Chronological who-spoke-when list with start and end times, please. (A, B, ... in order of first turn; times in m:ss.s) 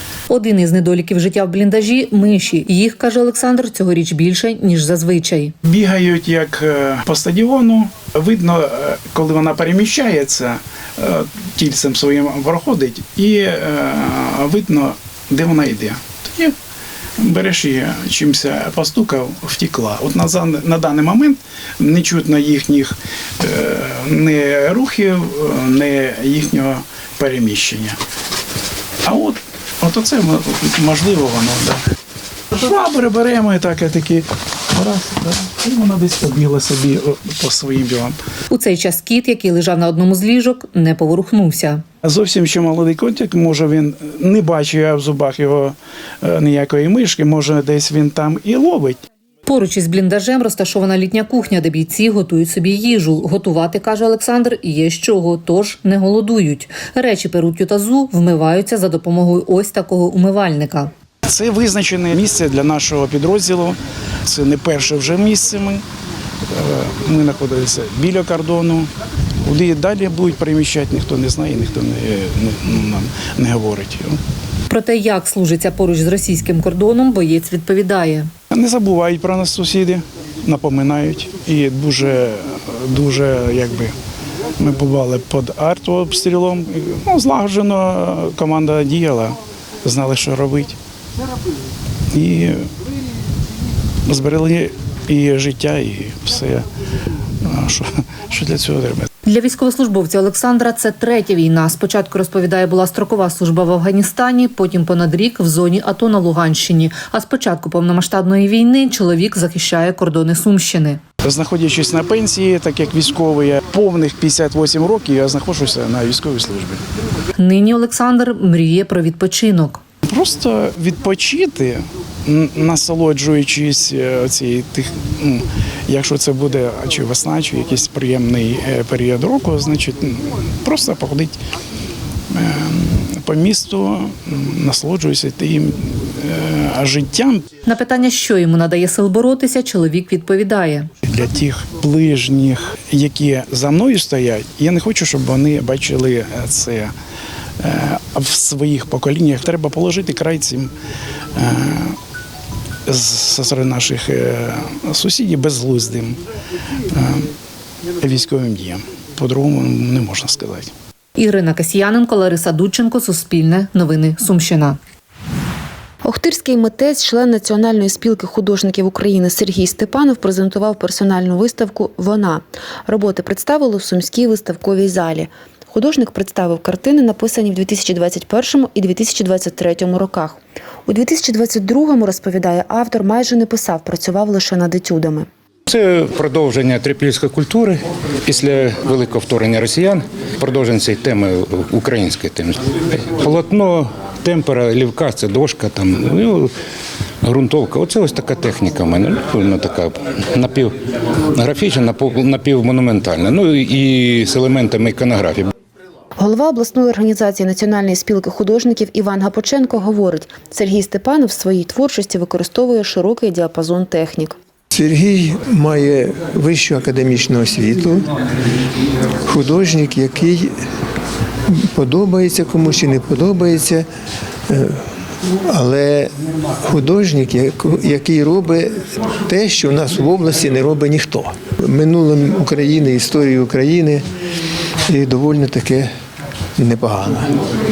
0:00.3-0:05.5 A
0:05.6-0:16.5 B
0:17.2-0:28.0 B
0:29.1-0:31.8 B
0:32.6-0:38.2 B
0:38.5-0:41.8 A
0:42.0-0:49.0 B
0:49.5-1:00.9 A
1:01.2-1:05.8 B
1:06.6-1:08.9 B
1:09.4-1:14.2 B
1:14.7-1:18.3 A
1:18.5-1:24.0 B
1:24.6-1:30.8 B
1:32.1-1:32.6 B
1:34.1-1:36.7 B
1:37.5-1:39.1 B
1:39.3-1:51.0 A
1:51.2-1:56.8 B
1:57.4-1:59.8 A
2:00.1-2:11.4 B
2:12.3-2:17.4 B
2:17.7-2:20.9 A
2:21.1-2:26.9 B
2:27.6-2:30.7 B
2:31.4-2:32.0 B
2:32.9-2:36.2 B
2:36.9-2:37.3 B
2:38.0-2:40.7 B
2:41.2-2:44.8 A
2:46.0-3:05.3 C
3:05.7-3:16.5 D
3:17.2-3:20.7 D
3:21.4-3:25.5 D
3:26.2-3:34.4 C
3:34.7-3:38.0 E
3:39.3-3:40.5 E
3:41.5-3:43.9 E
3:44.5-3:44.8 E
3:45.5-3:54.0 E
3:54.9-3:55.9 E
3:56.6-3:57.3 E